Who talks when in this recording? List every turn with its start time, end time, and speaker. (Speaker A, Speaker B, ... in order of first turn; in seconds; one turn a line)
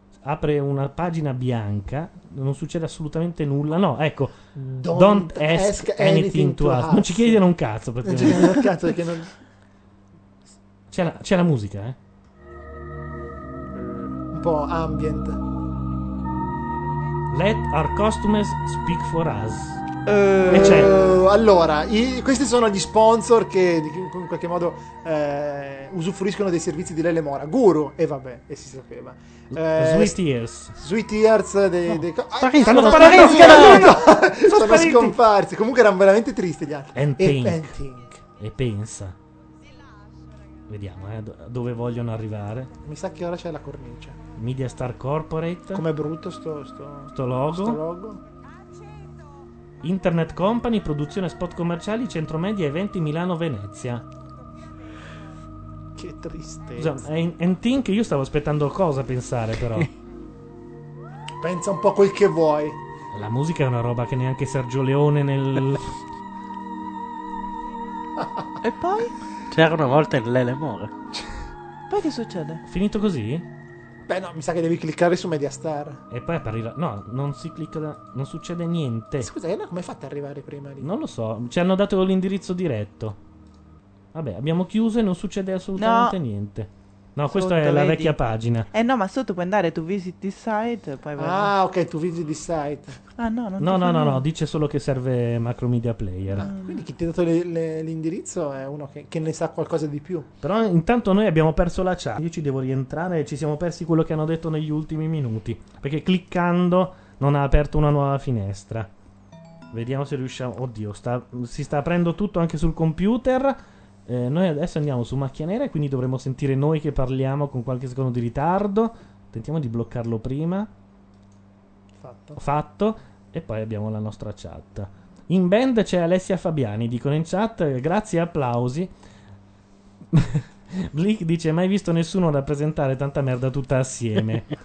Speaker A: 0.2-4.4
Speaker B: 4.6-7.4
Speaker A: 4.9-8.6
Speaker B: 8.1-9.3
Speaker A: 10.9-12.0
Speaker B: 13.8-15.4
Speaker A: 17.3-19.8
Speaker C: 20.1-20.8
Speaker A: 20.5-20.9
Speaker B: 20.5-30.2
Speaker A: 29.5-30.8
Speaker B: 30.8-38.2
Speaker D: 32.4-33.9
Speaker A: 32.6-35.2
Speaker A: 37.0-37.7
Speaker A: 38.4-39.1
Speaker A: 40.7-42.7
Speaker B: 42.8-44.2
Speaker A: 44.4-45.9
Speaker B: 45.7-48.2
Speaker A: 47.1-47.8
Speaker A: 49.8-54.0
Speaker B: 56.0-57.0
Speaker A: 56.8-59.9
Speaker B: 61.4-62.8
Speaker A: 63.1-65.9
Speaker C: 68.6-69.1
Speaker D: 69.5-70.9
Speaker C: 71.9-72.6
Speaker A: 72.7-73.5
Speaker B: 74.1-76.0
Speaker A: 76.1-79.3
Speaker B: 79.2-80.9
Speaker A: 80.8-83.2
Speaker A: 84.1-88.7
Speaker C: 85.8-86.2
Speaker C: 87.3-88.2
Speaker C: 88.7-91.5
Speaker B: 91.2-93.0
Speaker C: 93.2-94.2
Speaker A: 93.6-96.5
Speaker B: 96.4-100.3
Speaker C: 96.4-96.8
Speaker A: 100.4-108.9
Speaker A: 109.7-120.7
Speaker B: 122.0-122.4
Speaker A: 122.4-128.9
Speaker A: 130.1-134.5